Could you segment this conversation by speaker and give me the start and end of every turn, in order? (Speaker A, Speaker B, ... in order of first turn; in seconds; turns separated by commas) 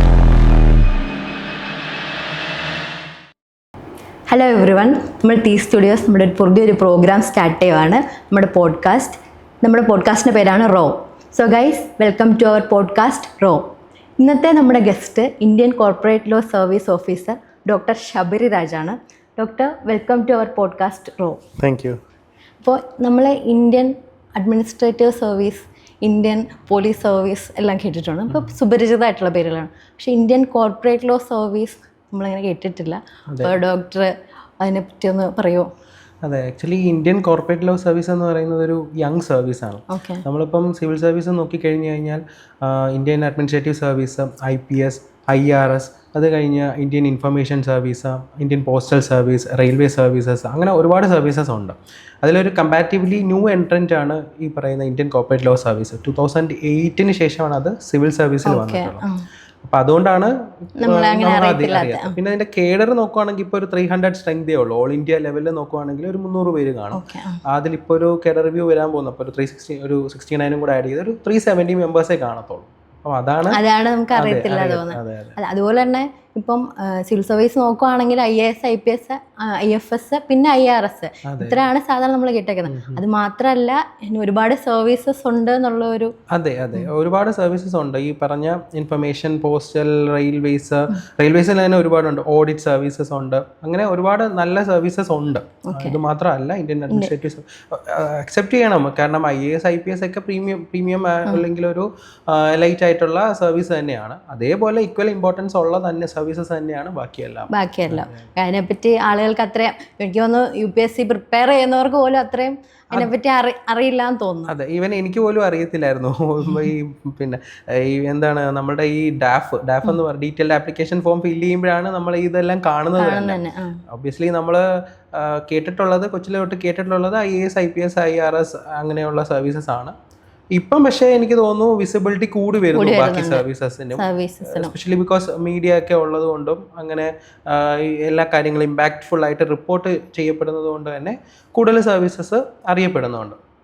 Speaker A: 4.3-13.7, Speaker A: 14.2-21.4, Speaker B: 21.6-22.0, Speaker A: 22.6-34.1, Speaker A: 34.6-35.7, Speaker B: 36.2-59.0, Speaker A: 39.9-40.2, Speaker A: 58.5-59.2, Speaker B: 59.6-73.6, Speaker A: 60.8-62.1, Speaker A: 66.9-67.4, Speaker A: 73.5-86.1, Speaker B: 74.1-75.4, Speaker B: 81.2-81.6, Speaker B: 82.7-83.0, Speaker B: 86.3-108.2, Speaker A: 95.7-96.0, Speaker A: 107.5-114.5, Speaker B: 114.5-123.4, Speaker A: 123.0-123.8, Speaker B: 123.9-129.9, Speaker B: 130.6-143.4, Speaker A: 132.7-133.4, Speaker A: 133.9-134.7